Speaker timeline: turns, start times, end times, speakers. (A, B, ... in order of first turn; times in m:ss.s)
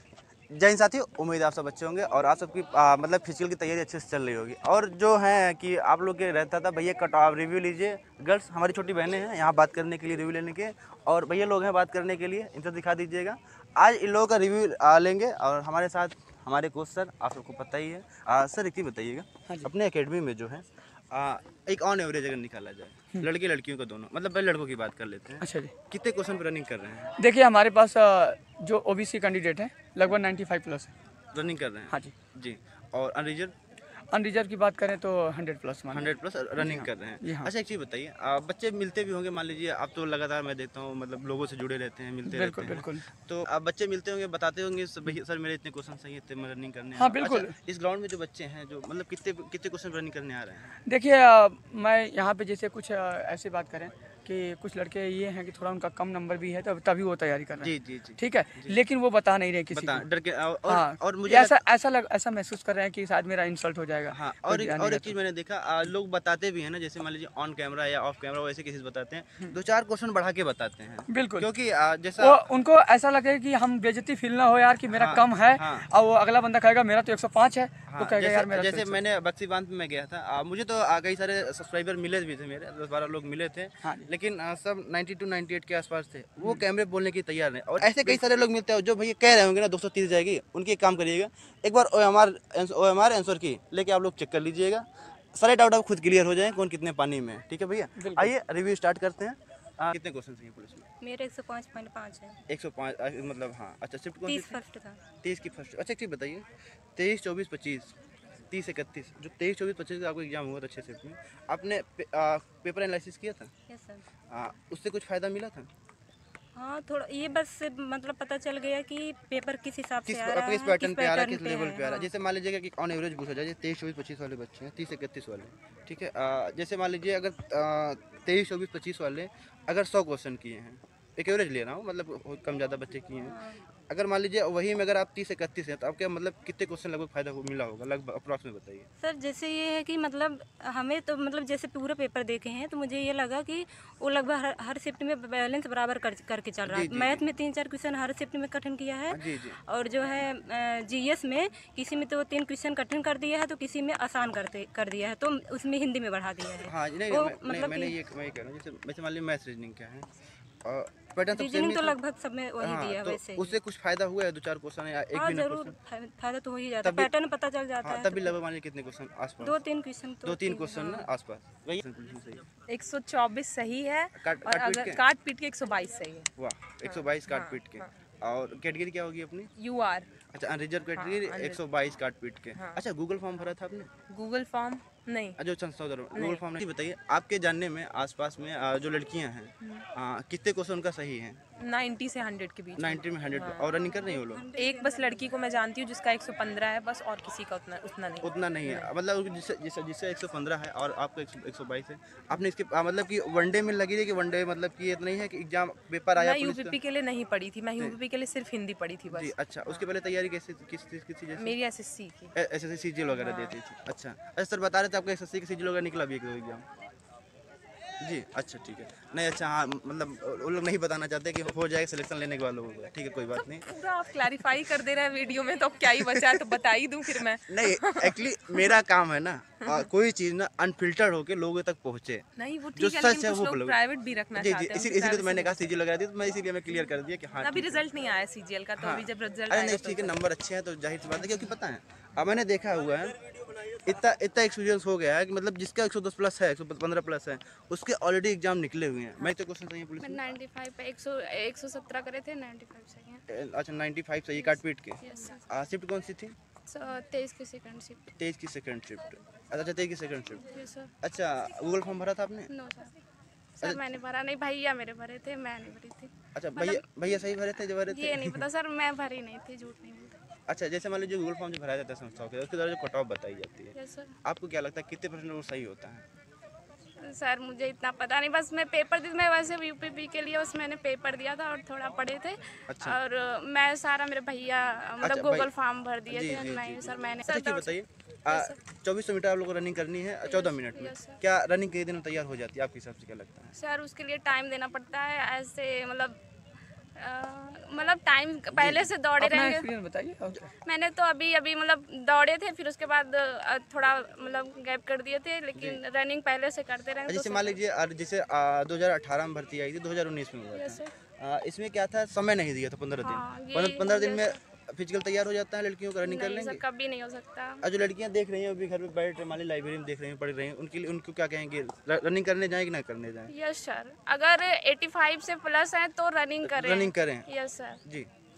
0:00.5-0:27.1 A
0:25.4-0:25.7 B
0:27.2-0:30.9 B
0:31.3-0:33.5 A
0:34.1-0:37.5 B
0:35.9-0:50.8 A
0:42.3-0:43.0 B
0:47.0-0:47.6 B
0:50.9-1:00.1 B
0:57.6-0:58.8 A
0:59.7-1:01.6 A
1:00.7-1:05.2 B
1:04.1-1:12.4 A
1:11.1-1:11.5 B
1:12.2-1:19.0 B
1:14.9-1:15.9 A
1:17.9-1:40.9 A
1:23.8-1:24.1 B
1:27.8-1:28.2 B
1:38.0-1:38.3 B
1:41.0-1:42.4 C
1:42.5-1:44.6 A
1:44.2-1:45.0 C
1:45.2-1:47.9 A
1:48.5-1:53.5 A
1:53.7-1:54.0 C
1:54.3-1:55.7 A
1:56.6-2:02.1 C
2:00.0-2:13.4 A
2:13.3-2:13.6 C
2:13.9-2:18.9 A
2:19.0-2:29.2 C
2:26.7-2:27.3 A
2:29.1-2:29.6 A
2:29.7-2:37.9 C
2:36.6-2:40.1 A
2:40.6-2:42.0 A
2:41.3-2:43.6 C
2:42.6-2:45.8 A
2:45.2-2:48.3 C
2:46.8-2:47.1 A
2:47.8-2:49.6 A
2:49.4-2:50.8 C
2:50.2-2:52.5 A
2:52.7-2:56.3 D
2:54.2-2:55.0 A
2:56.4-2:59.5 A
2:56.8-2:57.9 D
2:59.6-3:00.1 D
3:00.3-3:03.9 A
3:01.0-3:01.6 D
3:02.6-3:02.8 D
3:04.1-3:05.4 D
3:05.4-3:11.4 A
3:06.1-3:06.4 D
3:11.6-3:13.8 D
3:12.8-3:14.5 A
3:13.8-3:15.4 C
3:14.5-3:18.9 D
3:18.2-3:26.8 A
3:26.2-3:29.8 D
3:29.1-3:31.6 A
3:31.4-3:32.3 D
3:32.4-3:36.7 A
3:33.1-3:33.5 D
3:38.0-3:43.7 A
3:43.4-3:48.7 D
3:46.0-3:46.4 A
3:47.5-3:53.8 A
3:52.4-3:55.7 D
3:54.4-3:57.9 A
3:57.4-4:00.2 D
3:58.8-4:10.2 A
4:10.0-4:13.2 E
4:13.3-4:16.4 A
4:14.4-4:15.5 E
4:16.7-4:18.1 E
4:18.2-4:20.5 A
4:20.4-4:20.9 E
4:21.0-4:22.5 A
4:22.5-4:22.9 E
4:23.6-4:27.3 E
4:23.6-4:24.0 A
4:26.4-4:28.5 A
4:27.9-4:30.1 E
4:30.5-4:36.0 A
4:33.7-4:34.2 E
4:37.0-4:47.8 E
4:42.7-4:43.0 A
4:45.0-4:45.5 A
4:46.1-4:53.6 A
4:48.3-4:48.6 E
4:50.3-4:51.2 E
4:53.6-4:56.2 E
4:57.0-4:59.6 E
4:58.5-4:58.9 A
4:59.2-5:00.5 B
5:00.6-5:07.6 E
5:05.6-5:05.8 A
5:07.1-5:16.6 A
5:10.5-5:10.9 E
5:13.0-5:14.4 E
5:16.0-5:17.6 E
5:17.6-5:23.3 A
5:23.3-5:27.8 E
5:26.4-5:27.3 A